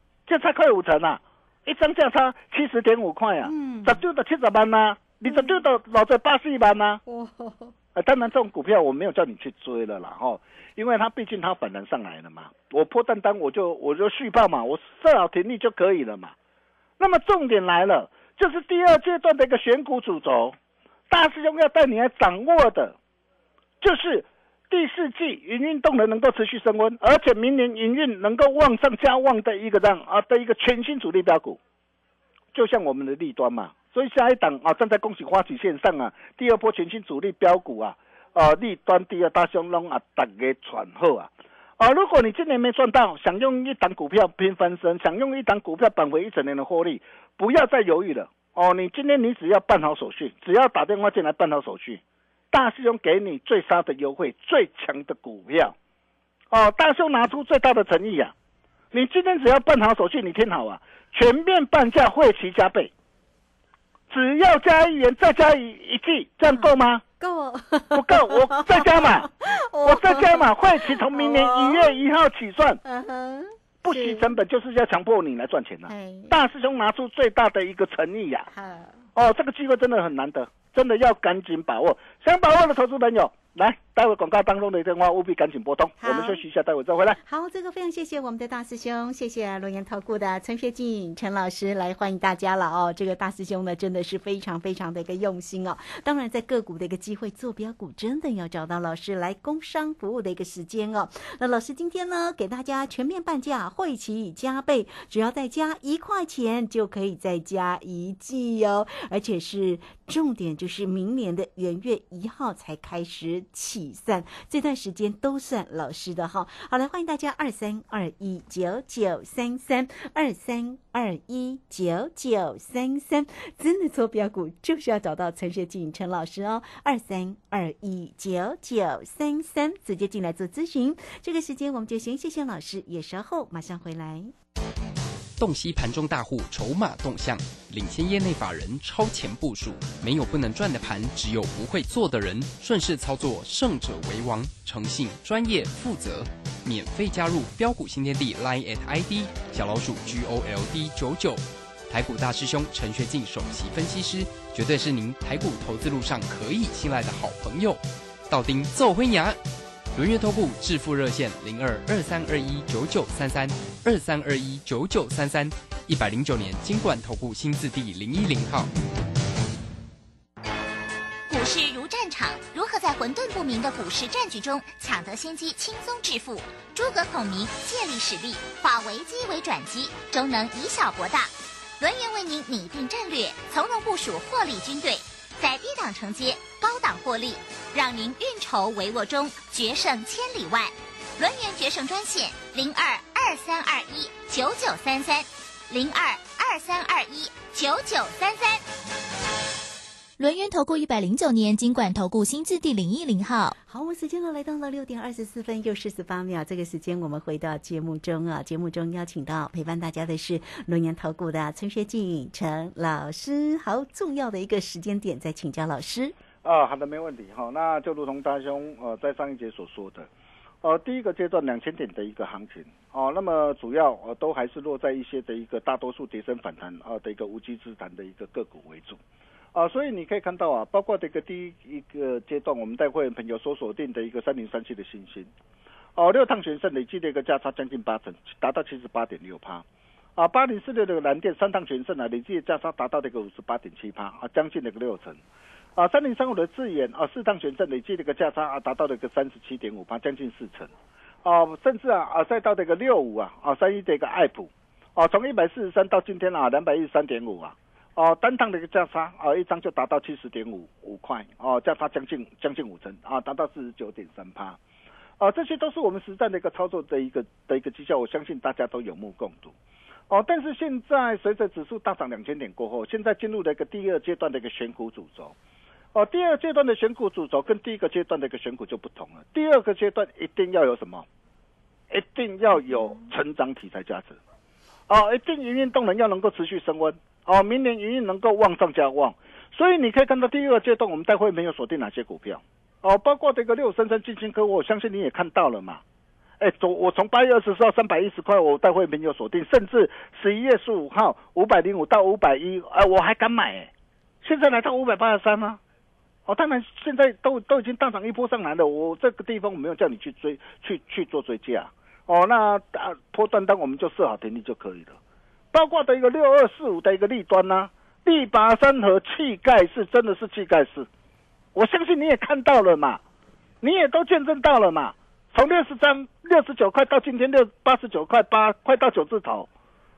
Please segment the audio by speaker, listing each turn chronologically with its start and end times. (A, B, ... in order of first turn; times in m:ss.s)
0:00.3-0:07.0 A
0:03.4-0:04.0 B
0:05.2-0:05.7 B
0:07.1-0:07.7 B
0:08.0-0:16.3 A
0:17.0-0:20.6 A
0:21.1-0:23.0 A
0:23.8-0:31.6 A
0:32.5-0:52.0 A
0:52.5-0:55.8 A
0:56.5-0:58.3 A
0:58.9-1:02.9 A
1:04.1-1:07.0 A
1:06.4-1:12.0 B
1:07.9-1:12.8 A
1:12.8-1:14.3 B
1:13.8-1:18.5 A
1:15.9-1:16.4 B
1:18.5-1:19.1 B
1:19.2-1:27.2 A
1:26.0-1:26.4 B
1:27.2-2:14.3 B
2:15.4-2:39.4 C
2:39.9-2:48.7 C
2:51.3-3:18.6 D
3:20.2-3:23.6 E
3:23.6-3:36.2 B
3:36.4-3:40.1 A
3:40.6-3:49.0 A
3:49.5-3:55.3 A
3:56.0-3:59.6 A
4:00.2-4:05.2 A
4:05.8-4:10.7 A
4:11.2-4:24.6 A
4:25.2-4:29.6 A
4:30.1-4:35.4 A
4:35.9-4:41.1 A
4:41.9-4:44.2 A
4:42.6-4:43.1 B
4:44.9-4:55.8 A
4:56.4-5:03.7 A
5:04.2-5:05.6 A
5:06.3-5:15.0 A
5:15.5-5:20.9 A
5:21.6-5:23.0 A
5:23.6-5:29.5 A